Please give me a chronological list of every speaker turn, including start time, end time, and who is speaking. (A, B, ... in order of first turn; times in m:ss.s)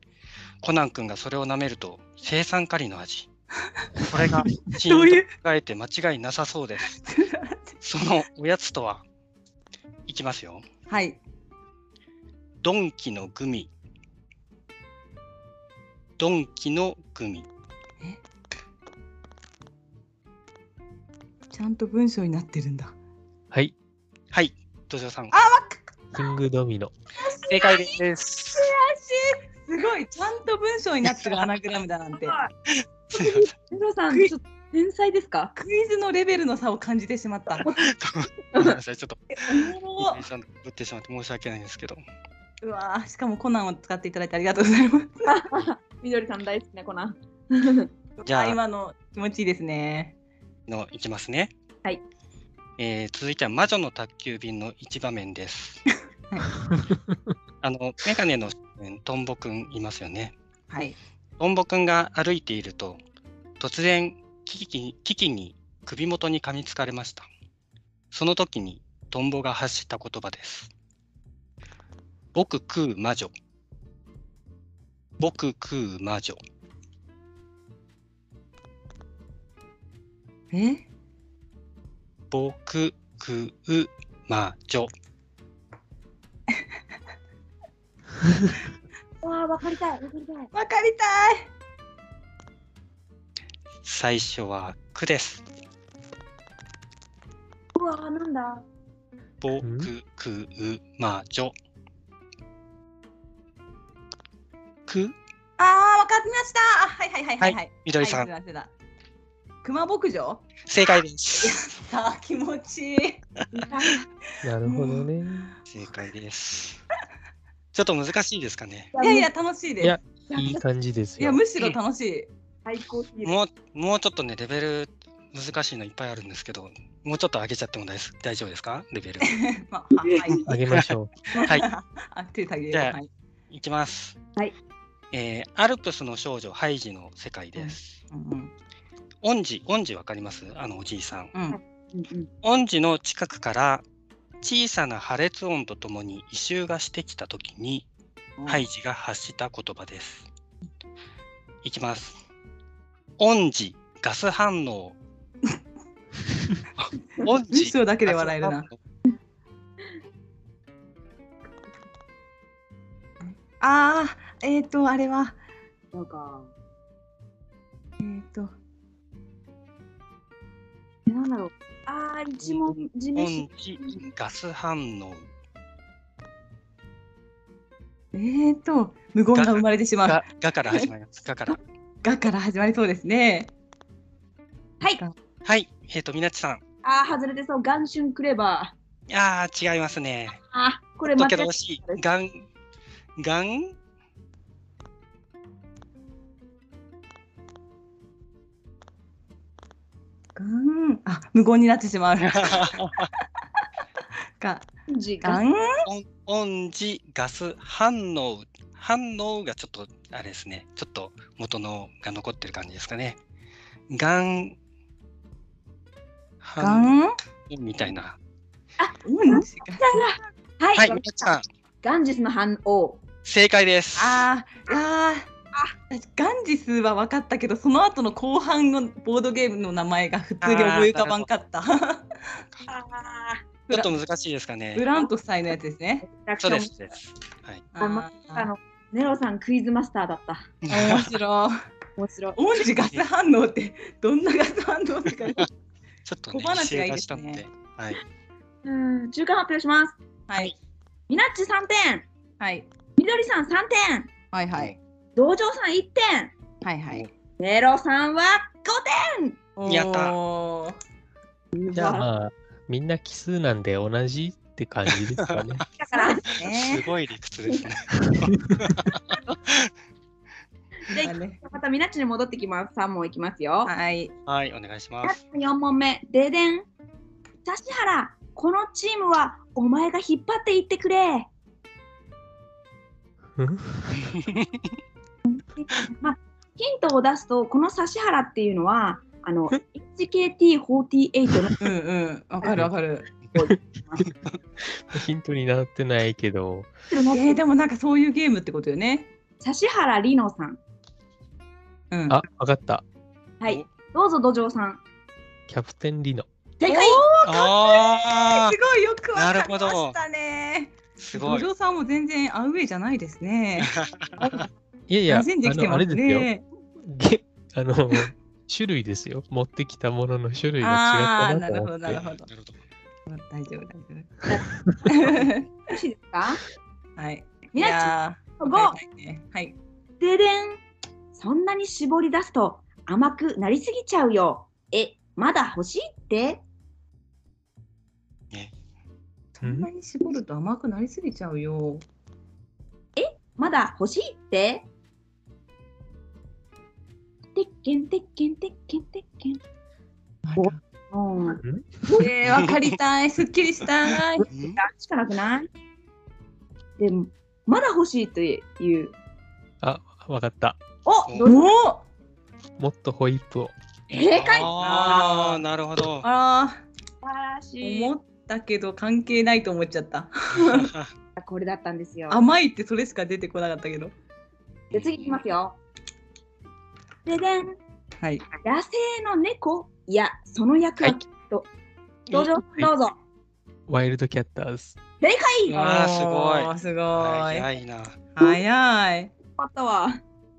0:00.6-0:03.3 A
0:04.0-0:07.0 A
0:04.8-0:05.3 B
0:07.0-0:07.7 B
0:07.8-0:09.0 A
0:10.1-0:10.6 A
0:10.9-0:11.2 B
0:12.6-0:13.7 A
0:16.2-0:17.5 A
0:21.5-0:22.9 B
0:24.3-0:25.3 A
0:25.3-0:25.8 B
0:26.1-0:26.9 C
0:27.2-0:28.0 B
0:27.5-0:28.7 A
0:28.5-0:32.4 B
0:32.2-0:32.5 D
0:32.7-0:33.5 A
0:33.1-0:35.5 D
0:35.6-0:37.7 B
0:37.7-0:42.0 A
0:38.5-0:38.8 D
0:39.4-0:40.2 B
0:42.6-0:45.3 B
0:45.3-0:47.9 D
0:48.2-0:50.1 B
0:48.2-0:48.6 A
0:50.7-0:51.5 A
0:52.8-0:55.8 A
0:56.6-0:57.2 C
0:57.6-1:00.3 A
1:00.7-1:01.0 B
1:01.4-1:03.0 A
1:03.6-1:07.3 A
1:08.1-1:10.7 A
1:12.3-1:13.3 A
1:15.2-1:16.4 A
1:20.5-1:20.8 B
1:22.3-1:24.9 A
1:29.2-1:30.5 D
1:30.5-1:31.5 B
1:33.8-1:35.4 A
1:37.7-1:38.6 D
1:39.4-1:41.5 A
1:39.6-1:39.9 C
1:44.9-1:45.2 A
1:45.6-1:48.7 B
1:47.4-1:48.3 A
1:49.6-1:50.5 B
1:50.6-1:51.6 A
1:51.4-1:53.2 B
1:53.5-1:54.0 D
1:54.4-1:55.5 C
1:54.6-1:55.1 B
1:55.7-1:56.8 A
1:57.7-1:58.9 A
1:58.9-1:59.3 D
1:59.0-2:00.0 B
1:59.8-2:01.4 C
2:00.3-2:00.6 D
2:01.2-2:02.3 B
2:02.6-2:03.4 D
2:03.2-2:09.4 A
2:09.3-2:10.5 B
2:10.0-2:10.5 D
2:10.4-2:11.2 C
2:11.3-2:11.6 D
2:11.4-2:13.1 B
2:12.7-2:13.0 A
2:13.5-2:14.2 A
2:15.1-2:18.0 A
2:17.6-2:18.5 B
2:19.2-2:21.3 A
2:21.5-2:22.3 D
2:22.4-2:23.8 A
2:24.4-2:27.9 A
2:28.4-2:28.6 B
2:28.5-2:30.3 A
2:31.6-2:32.2 A
2:33.2-2:35.0 A
2:36.8-2:38.8 A
2:37.5-2:38.6 B
2:43.6-2:45.4 B
2:45.9-2:46.5 D
2:48.0-2:48.5 B
2:51.1-2:54.0 D
2:53.1-2:55.2 A
2:58.1-3:00.9 B
2:59.3-3:01.6 A
3:02.0-3:03.5 B
3:05.4-3:06.6 A
3:06.8-3:08.7 D
3:09.1-3:10.4 A
3:10.3-3:12.0 D
3:11.1-3:12.4 A
3:13.2-3:13.7 A
3:20.4-3:22.8 B
3:22.4-3:23.1 A
3:24.4-3:24.7 B
3:24.9-3:25.4 D
3:25.2-3:25.8 B
3:25.8-3:33.2 A
3:33.9-3:34.6 A
3:36.4-3:36.9 A
3:36.6-3:37.2 B
3:37.5-3:38.2 A
3:38.8-3:43.0 D
3:39.0-3:39.9 B
3:40.7-3:41.4 A
3:43.2-3:44.2 A
3:44.0-3:45.3 B
3:45.9-3:52.1 B
3:50.4-3:51.3 A
3:52.7-3:53.4 D
3:53.7-3:54.9 A
3:54.7-3:56.1 B
3:56.0-3:56.9 D
3:56.4-3:57.6 A
3:57.7-3:58.5 B
3:57.8-4:00.5 D
4:00.6-4:01.1 A
4:00.7-4:01.5 B
4:02.0-4:02.4 D
4:02.4-4:05.5 B
4:06.0-4:08.0 A
4:06.3-4:07.4 B
4:08.6-4:10.0 D
4:10.3-4:10.5 B
4:11.1-4:12.0 D
4:12.4-4:12.7 B
4:13.0-4:14.1 D
4:14.3-4:14.8 B
4:15.2-4:16.3 D
4:16.6-4:17.1 B
4:17.4-4:19.4 D
4:19.6-4:20.8 B
4:19.6-4:20.1 A
4:21.5-4:22.1 D
4:21.7-4:25.6 C
4:25.7-4:26.4 D
4:25.9-4:26.8 B
4:26.3-4:29.7 A
4:28.2-4:28.7 C
4:30.9-4:33.7 D
4:31.0-4:31.4 B
4:33.6-4:34.1 B
4:34.2-4:35.2 A
4:35.0-4:36.7 D
4:37.4-4:41.3 D
4:43.4-4:44.1 C
4:44.2-4:44.6 A
4:45.2-4:51.6 D
4:51.6-4:53.1 B
4:53.3-4:54.1 D
4:54.9-4:56.7 C
4:56.9-4:57.4 D
4:57.1-4:59.1 B
4:59.4-5:00.6 D
5:01.9-5:02.2 B
5:02.1-5:02.8 C
5:03.4-5:04.8 D
5:05.5-5:06.3 C
5:06.6-5:07.0 D
5:06.6-5:13.7 B
5:07.2-5:08.6 A
5:09.1-5:10.0 A
5:11.0-5:11.5 A
5:13.6-5:14.3 A
5:14.9-5:16.3 C
5:15.1-5:16.4 B
5:16.8-5:22.0 C
5:20.6-5:22.3 B
5:22.2-5:22.6 A
5:23.1-5:24.1 B
5:24.5-5:24.8 C
5:24.8-5:25.4 B
5:25.0-5:26.4 D
5:27.0-5:29.6 B
5:27.5-5:28.8 D
5:30.0-5:30.6 D
5:31.1-5:36.4 D
5:39.3-5:41.8 B
5:39.4-5:39.7 C
5:43.0-5:44.6 D
5:47.3-5:49.4 D
5:50.2-5:50.6 B
5:50.4-5:52.1 D
5:51.4-5:51.8 C
5:51.9-5:54.3 B
5:54.2-5:55.5 D
5:54.3-5:54.6 A
5:56.8-5:58.9 D
5:59.6-6:00.6 C
6:00.8-6:01.5 D
6:01.2-6:01.8 B
6:02.6-6:03.5 C
6:03.9-6:05.2 D
6:04.1-6:06.0 A
6:04.4-6:05.4 B
6:06.0-6:06.6 B
6:07.0-6:07.9 D
6:07.6-6:10.7 B
6:10.4-6:10.9 A
6:11.2-6:12.2 D
6:12.1-6:13.9 B
6:14.7-6:15.0 A
6:14.7-6:15.6 D
6:17.0-6:17.5 D
6:18.4-6:21.5 D
6:22.1-6:23.0 D
6:23.7-6:24.8 C
6:25.0-6:25.6 D
6:25.5-6:28.0 A
6:25.5-6:27.5 B
6:28.1-6:29.1 B
6:29.4-6:30.0 D